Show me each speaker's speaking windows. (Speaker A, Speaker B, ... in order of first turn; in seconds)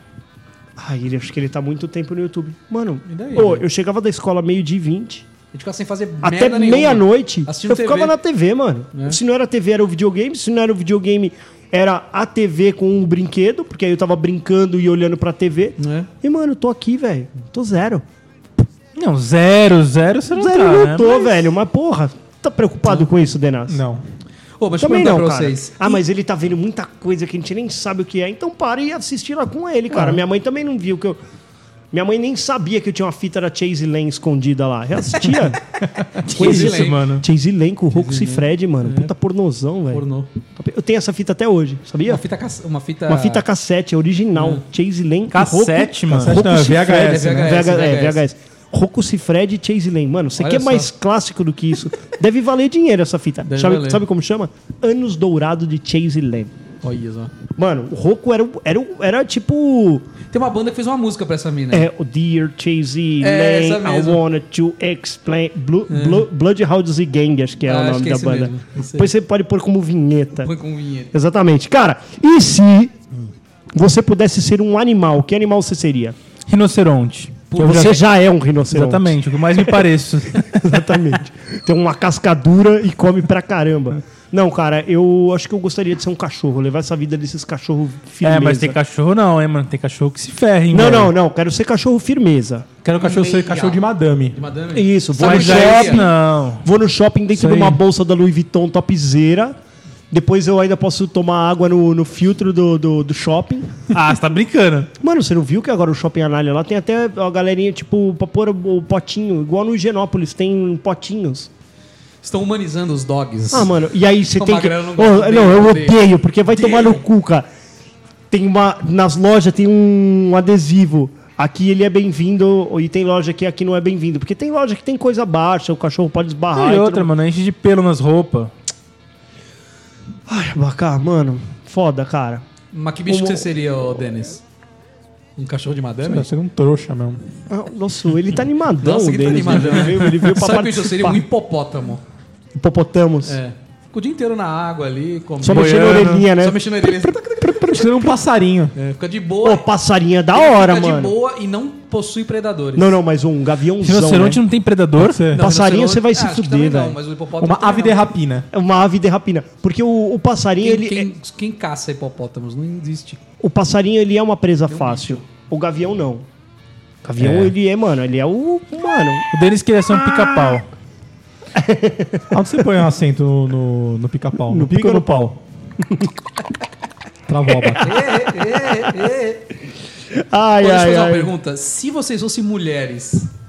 Speaker A: 0.8-5.3, 6.2-18.0, 20.3-23.8, 24.8-31.2, 31.9-35.6, 36.2-40.0, 40.6-42.2, 43.1-56.5, 57.6-60.1, 61.7-70.5, 71.1-72.9, 73.7-76.2, 77.6-79.8, 80.4-88.8, 90.7-92.7, 94.7-96.1, 96.6-99.6, 100.1-103.7, 105.0-111.5, 113.5-117.5, 118.3-127.1, 130.3-132.4, 133.1-133.5, 137.5-141.2, 142.5-143.4, 145.4-147.8, 149.4-151.2, 152.8-154.4, 155.4-157.0, 158.5-161.1, 163.4-166.3, 167.0-169.3, 169.9-170.6, 171.6-172.3, 174.5-176.1, 177.5-177.8, 180.2-181.3
Speaker B: 3.0-3.7, 5.5-8.2, 8.9-9.2, 15.8-16.1, 24.6-26.0, 36.3-37.1, 37.9-39.1, 39.9-40.3, 42.1-43.5, 44.4-44.6, 46.7-48.2, 50.4-50.9, 53.5-54.0, 56.8-57.3, 60.3-61.9, 63.2-64.2, 65.9-66.3, 67.7-69.1, 70.4-71.1, 77.5-78.0, 92.9-93.8, 94.3-96.0, 112.2-113.7, 114.3-117.0, 132.7-134.4, 135.4-136.3, 138.8-142.0, 143.2-147.9, 148.7-149.7, 150.3-153.0, 155.3-158.1, 160.6-163.2, 164.7-165.2, 177.8-179.4, 180.6-183.3
Speaker C: 19.0-21.4, 36.3-37.2, 45.3-46.4, 76.5-78.1, 78.7-80.7, 88.2-91.1, 95.2-96.7, 97.3-97.8, 103.9-104.9, 126.5-128.5, 145.5-146.3, 153.8-155.2, 169.3-170.7
Speaker D: 23.7-24.0, 35.9-36.6, 46.1-47.6, 92.9-94.4, 136.0-137.2, 147.7-148.7, 155.0-155.4, 157.4-158.5, 167.2-167.6, 172.3-175.4, 177.3-177.9